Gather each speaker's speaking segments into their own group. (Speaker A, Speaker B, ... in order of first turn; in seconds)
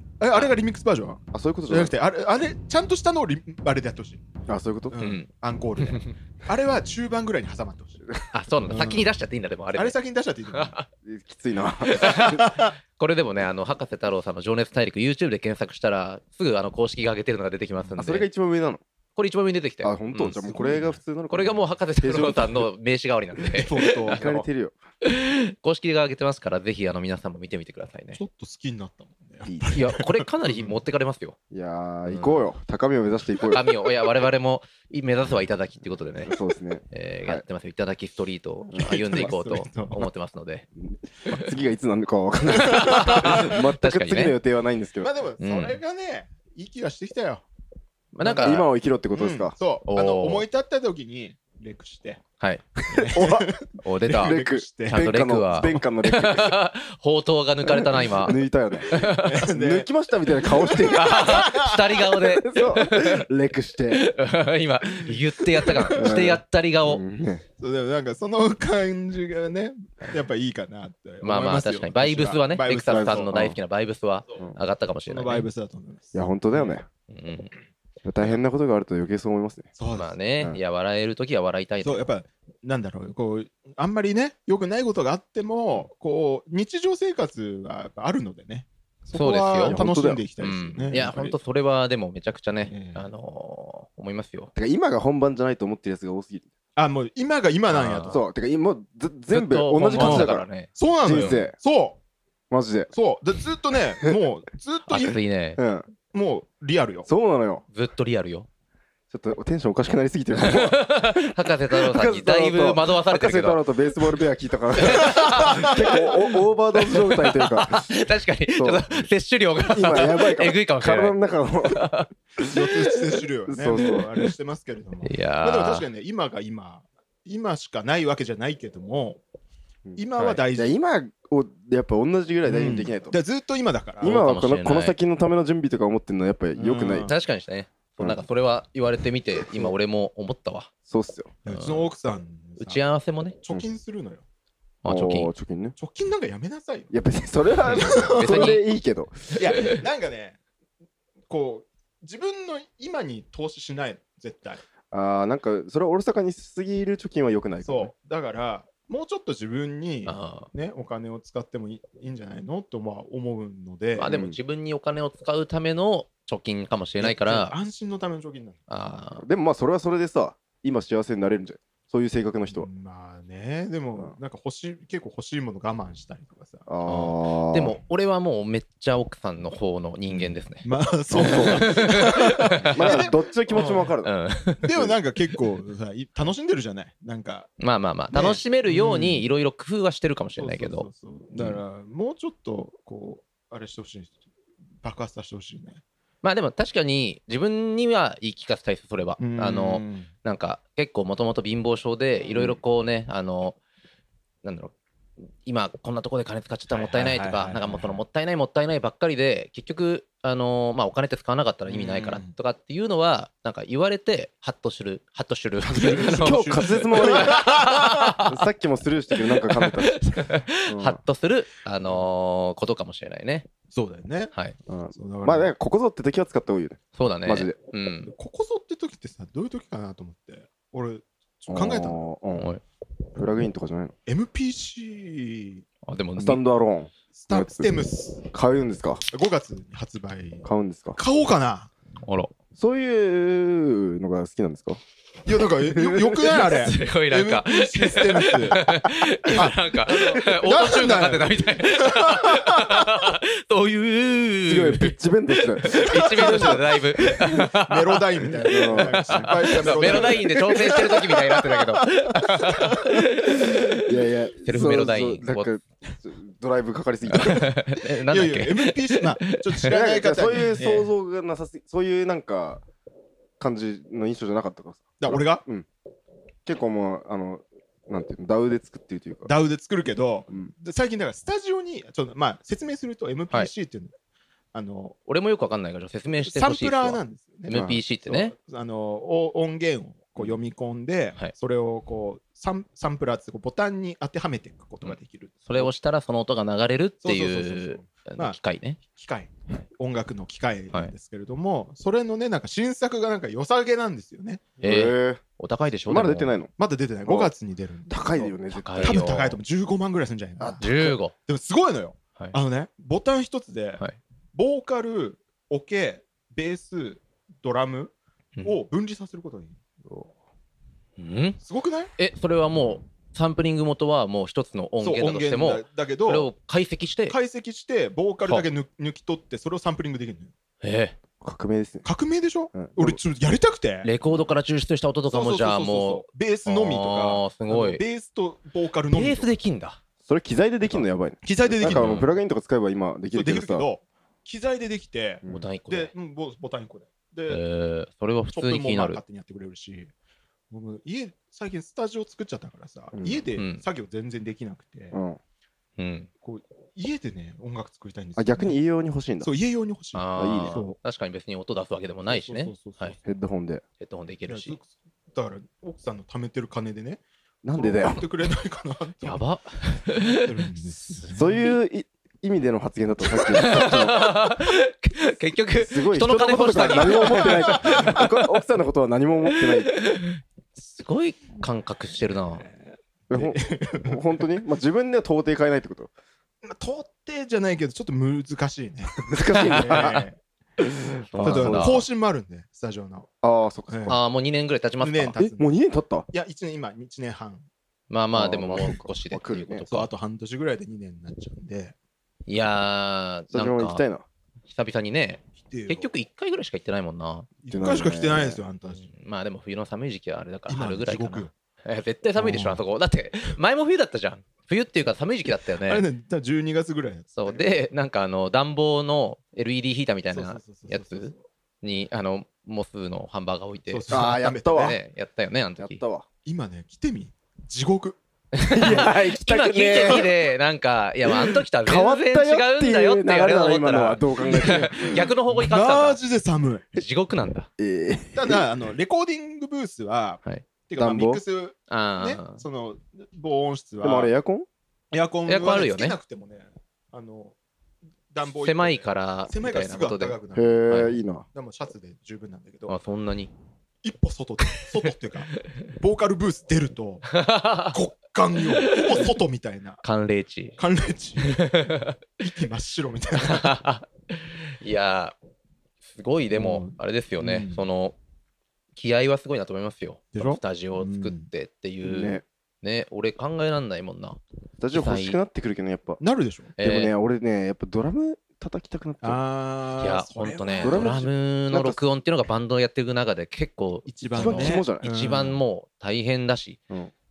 Speaker A: 0.2-4.3, 4.9-8.1, 8.7-9.1, 9.7-10.8, 12.2-12.7, 20.5-21.0, 23.5-24.3, 28.1-30.8, 38.8-40.1, 42.8-43.4, 45.0-47.5, 48.2-52.2, 52.9-55.1, 59.0-62.0, 67.6-73.3, 75.1-76.8, 79.8-80.2, 81.8-91.4, 92.7-93.1, 96.8-98.2, 100.0-102.0, 102.9-105.2, 106.1-107.1, 115.1-115.9, 122.4-129.2, 130.0-130.7, 132.5-134.2, 136.6-137.2, 141.4-142.8, 143.4-144.2, 145.8-146.9, 147.7-148.5, 149.4-150.4, 151.3-154.6, 157.6-164.2, 167.0-168.6, 172.5-176.7, 180.6-183.9, 184.6-187.5, 188.1-189.3, 190.4-194.2, 194.8-195.8, 199.2-200.1, 206.7-208.0, 211.7-212.3, 215.6-217.8, 223.7-224.3, 224.9-225.5, 228.1-232.0, 234.1-235.7, 237.1-238.2, 239.1-241.7, 245.2-248.7, 249.3-252.9, 255.8-263.1, 267.3-270.9, 275.0-275.4, 279.2-283.9, 284.5-285.0, 286.2-295.7, 297.0-304.5, 306.6-313.8, 314.3-319.6, 321.4-321.9, 324.8-326.3, 327.1-330.3, 331.8-333.9, 335.1-339.3, 341.2-342.0, 343.1-347.4, 348.3-349.9, 350.5-355.0, 356.2-358.6, 359.2-360.8, 362.1-363.1, 364.3-367.0, 367.5-369.2, 370.1-371.6, 377.0-377.9, 383.1-384.3, 386.4-390.2, 391.2-393.1, 393.7-394.0, 394.8-395.5, 396.1-397.5, 399.7-401.8, 405.4-405.9, 407.4-408.9, 410.5-411.3, 412.2-412.6, 415.7-417.5, 420.1-421.2, 423.7-424.8, 426.2-428.0, 428.6-428.9, 434.2-436.8, 438.1-444.1, 444.9-447.4, 448.1-450.8, 451.3-452.8, 453.8-457.2, 457.7-459.8, 460.6-461.4, 462.2-463.6, 466.3-467.6, 470.1-471.3, 476.0-476.5, 479.0-481.1, 483.9-485.4
Speaker B: 1.3-1.9, 4.5-5.0, 11.0-12.4, 18.0-18.8, 19.8-22.7, 24.1-24.8, 29.4-29.7, 31.5-33.7, 36.2-37.4, 40.8-45.1, 48.4-49.5, 52.9-53.5, 54.2-56.6, 57.7-64.0, 65.8-67.4, 72.9-73.6, 76.1-76.9, 78.0-79.7, 89.7-90.2, 94.5-96.5, 98.1-100.5, 101.0-101.5, 102.5-102.9, 105.6-105.9, 107.1-107.6, 109.1-117.9, 118.6-118.9, 119.6-122.0, 123.5-124.1, 129.9-133.2, 134.0-137.1, 139.5-139.8, 140.9-141.4, 144.9-145.8, 146.9-149.2, 154.9-157.9, 164.1-164.4, 169.2-172.7, 176.7-177.8, 181.1-181.8, 182.7-184.1, 215.8-220.0, 220.7-221.0, 224.7-227.6, 231.5-232.5, 233.2-233.9, 236.2-237.7, 238.3-239.1, 240.4-241.0, 242.6-244.8, 245.6-246.4, 254.5-256.6, 258.4-260.8, 263.8-267.5, 269.7-272.6, 273.4-275.7, 276.5-279.3, 287.5-287.8, 304.6-305.2, 305.9-306.5, 307.1-307.3, 307.9-309.1, 310.4-310.9, 319.9-320.1, 331.2-331.9, 332.5-333.0, 340.1-343.7, 352.9-353.2, 354.9-355.2, 358.2-359.3, 360.2-360.6, 363.0-363.6, 367.4-368.1, 371.1-374.1, 375.6-379.7, 383.1-385.9, 389.1-389.9, 391.1-391.9, 393.2-394.0, 395.4-396.1, 398.1-399.6, 403.3-404.1, 407.5-408.4, 423.9-424.8, 425.6-426.1, 428.5-430.1, 431.1-434.9, 437.6-438.4, 440.8-441.2, 443.8-444.5, 450.3-451.3, 471.8-472.2, 474.6-476.0, 476.6-479.2, 480.6-481.8, 484.1-485.1
Speaker C: 5.0-5.3, 5.8-6.1, 8.3-10.0, 10.5-10.9, 11.8-18.3, 19.2-20.7, 21.3-24.5, 25.0-28.2, 29.7-31.4, 32.1-32.5, 33.4-40.7, 42.5-44.4, 45.4-45.8, 48.1-48.7, 49.9-50.5, 53.8-58.4, 58.9-59.4, 60.9-63.3, 63.9-67.0, 71.2-75.5, 77.1-77.6, 80.0-82.1, 89.2-89.8, 90.4-94.5, 97.7-98.2, 99.3-101.5, 104.9-105.6, 107.7-108.5, 110.3-113.7, 114.8-116.0, 116.8-122.1, 125.0-125.9, 134.1-135.0, 137.1-140.7, 141.5-141.9, 142.6-143.4, 144.8-145.3, 147.9-148.6, 160.1-160.5, 163.9-167.6, 168.7-169.3, 176.9-180.7, 181.2-184.6, 187.6-190.9, 196.2-203.6, 204.4-204.7, 205.4-218.4, 219.2-223.5, 227.0-228.1, 232.4-232.6, 235.9-236.4, 242.0-242.3, 246.5-265.5, 267.1-269.8, 285.1-288.3, 294.8-298.8, 304.6-306.4, 308.5-309.4, 310.6-311.1, 321.0-321.4, 322.0-327.1, 330.6-331.0, 333.8-337.8, 338.9-339.8, 341.6-342.1, 345.3-345.9, 347.3-349.0, 353.4-353.6, 355.8-356.1, 359.9-363.0, 363.8-364.6, 369.0-371.1, 373.1-378.3, 379.3-382.5, 389.4-390.1, 391.0-391.8, 393.9-395.3, 397.9-399.9, 402.3-403.8, 404.5-407.3, 408.7-415.9, 417.1-425.8, 428.3-436.0, 436.7-437.5, 441.7-442.4, 445.3-446.0, 448.4-450.2, 450.7-451.0, 452.7-453.3, 457.1-457.8, 458.6-459.1, 459.8-460.6, 461.2-462.0, 463.2-465.2, 465.9-468.0, 468.8-474.2, 474.7-475.2, 476.6-476.9, 479.8-486.6